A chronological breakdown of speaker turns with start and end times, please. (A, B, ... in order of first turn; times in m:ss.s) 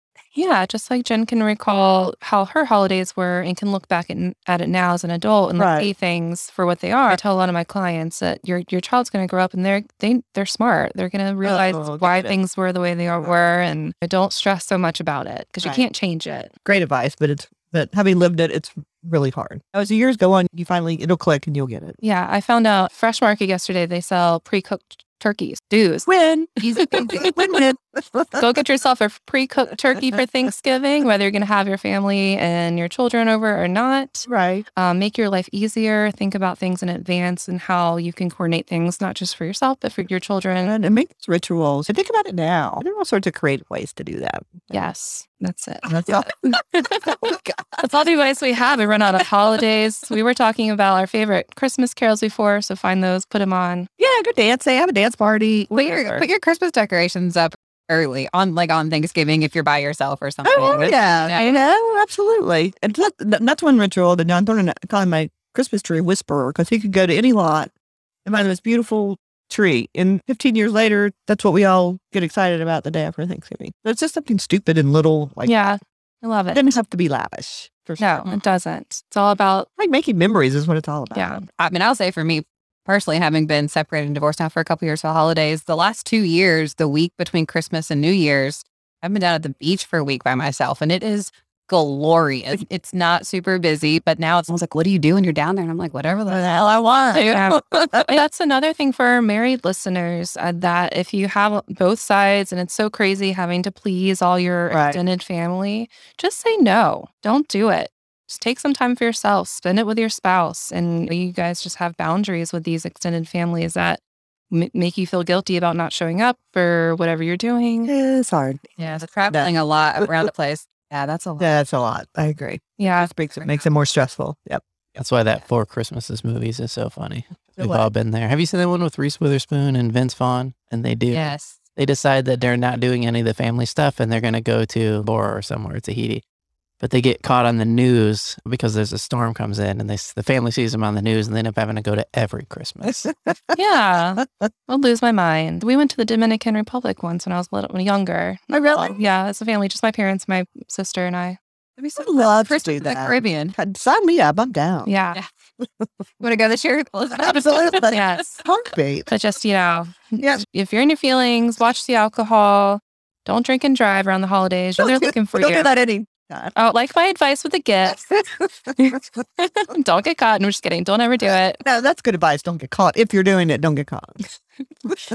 0:00.3-0:16.5 A
0:05.6-0:05.9 B
0:11.4-0:12.4 B
0:16.6-0:22.0 B
0:22.0-0:26.1 A
0:26.1-0:28.5 B
0:26.7-0:27.5 A
0:28.4-0:40.7 A
0:34.2-0:34.6 B
0:40.6-0:44.9 B
0:44.7-0:53.9 A
0:45.8-0:46.3 B
0:46.8-0:47.8 B
0:54.0-0:56.2 B
0:55.7-1:01.4 C
1:00.4-1:07.7 B
1:08.2-1:15.6 B
1:15.4-1:16.6 A
1:16.5-1:18.3 B
1:18.0-1:19.7 A
1:19.8-1:21.4 B
1:21.1-1:21.4 A
1:21.6-1:38.0 C
1:36.3-1:37.2 B
1:37.2-1:57.9 A
1:44.7-1:45.0 B
1:57.9-1:58.7 B
1:58.8-2:01.5 C
1:59.3-2:00.3 B
2:01.4-2:04.6 B
2:02.8-2:03.1 A
2:05.0-2:11.2 D
2:07.6-2:07.9 B
2:11.1-2:11.6 C
2:11.8-2:16.2 D
2:16.8-2:23.1 D
2:22.8-2:23.6 B
2:23.5-2:31.4 A
2:28.5-2:29.0 B
2:31.8-2:33.5 C
2:32.0-2:34.9 B
2:34.8-2:35.2 A
2:35.6-2:35.9 B
2:36.2-2:38.0 C
2:37.2-2:39.1 B
2:37.9-2:38.4 A
2:39.1-2:45.7 A
2:40.2-2:40.4 B
2:44.8-2:46.5 B
2:46.6-2:48.2 A
2:48.7-2:51.6 A
2:51.6-2:54.2 B